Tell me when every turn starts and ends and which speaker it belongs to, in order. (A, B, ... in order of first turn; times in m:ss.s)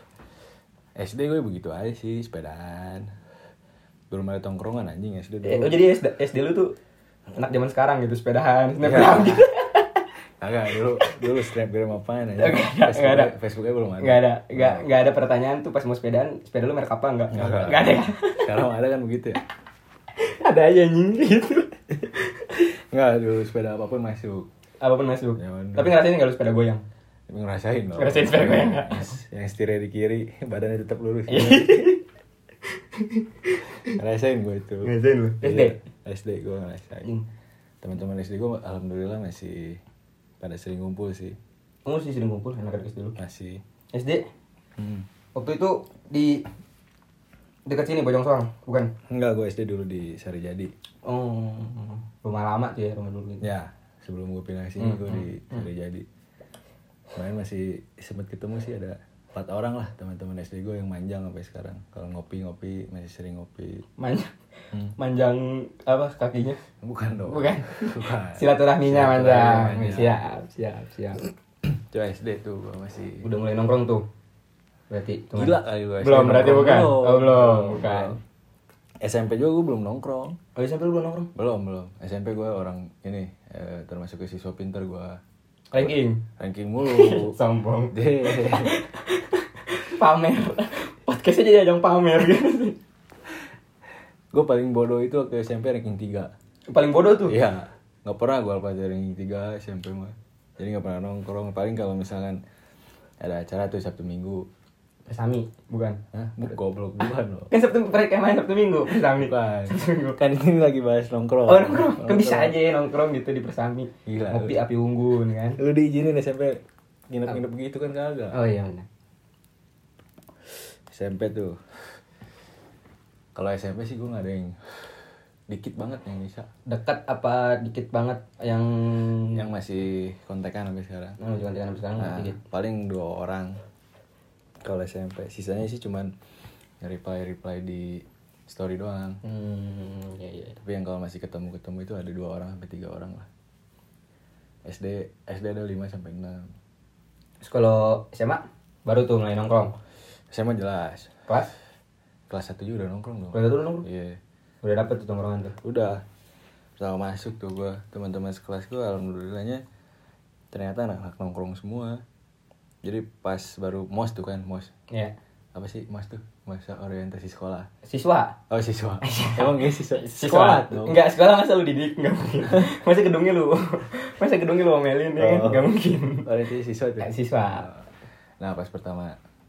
0:01.0-0:03.1 A
0:04.1-0:05.8 A
0:05.4-0:06.8 B
0:07.3-0:10.0 B
0:08.8-0:09.4 A
0:10.4-0:14.8 A
0:11.0-0:11.3 B
0:12.4-0:13.3 B
0:14.0-0:18.6 B
0:17.3-0:19.4 A
0:20.1-0:22.4 B
0:22.6-0:24.5 A
0:24.8-0:26.8 B
0:25.4-0:26.0 A
0:27.3-0:31.9 A
0:28.0-0:29.1 B
0:31.3-0:32.0 B
0:32.9-0:34.0 B
0:33.8-0:34.9 A
0:34.8-0:35.8 B
0:35.4-0:37.1 A
0:37.8-0:39.8 A
0:40.4-0:41.4 A
0:41.8-0:43.2 B
0:43.2-0:43.6 A
0:43.9-0:44.3 B
0:44.8-0:45.1 A
0:45.3-0:46.5 B
0:47.6-0:48.9 B
0:49.1-0:50.7 A
0:51.0-0:53.4 B
0:53.4-0:56.0 A
0:54.8-0:55.7 B
0:57.2-1:03.9 A
1:04.0-1:06.6 B
1:04.7-1:05.0 A
1:06.8-1:10.2 A
1:07.3-1:11.2 B
1:11.6-1:13.2 A
1:13.2-1:14.0 B
1:14.9-1:18.2 B
1:15.3-1:18.2 A
1:19.0-1:20.4 A
1:20.6-1:21.3 B
1:21.3-1:25.2 A
1:25.7-1:26.2 B
1:26.4-1:27.3 A
1:26.8-1:32.8 B
1:27.9-1:28.7 A
1:34.3-1:36.3 A
1:36.7-1:37.4 B
1:37.2-1:42.4 A
1:43.2-1:44.4 A
1:45.1-1:46.0 B
1:46.1-1:47.5 A
1:47.5-1:50.2 B
1:48.9-1:52.6 A
1:51.5-1:55.6 B
1:54.0-1:54.6 A
1:55.6-1:58.4 A
1:58.3-1:58.9 B
2:00.5-2:02.0 A
2:03.3-2:06.5 A
2:06.6-2:09.4 B
2:09.3-2:11.2 A
2:11.2-2:12.4 B
2:12.0-2:13.6 A
2:14.6-2:16.1 A
2:16.8-2:19.2 A
2:19.2-2:20.6 B
2:20.6-2:23.3 A
2:24.6-2:26.5 A
2:27.4-2:29.8 B
2:30.3-2:31.2 A
2:32.3-2:34.2 A
2:33.3-2:33.8 B
2:34.6-2:35.6 B
2:35.6-2:36.0 A
2:36.8-2:39.6 A
2:40.5-2:42.0 A
2:42.8-2:44.7 A
2:45.5-2:47.7 A
2:47.8-2:48.4 B
2:48.5-2:51.0 A
2:49.0-2:56.3 B
2:55.2-2:55.7 A
2:56.2-2:59.2 A
2:57.0-2:57.7 B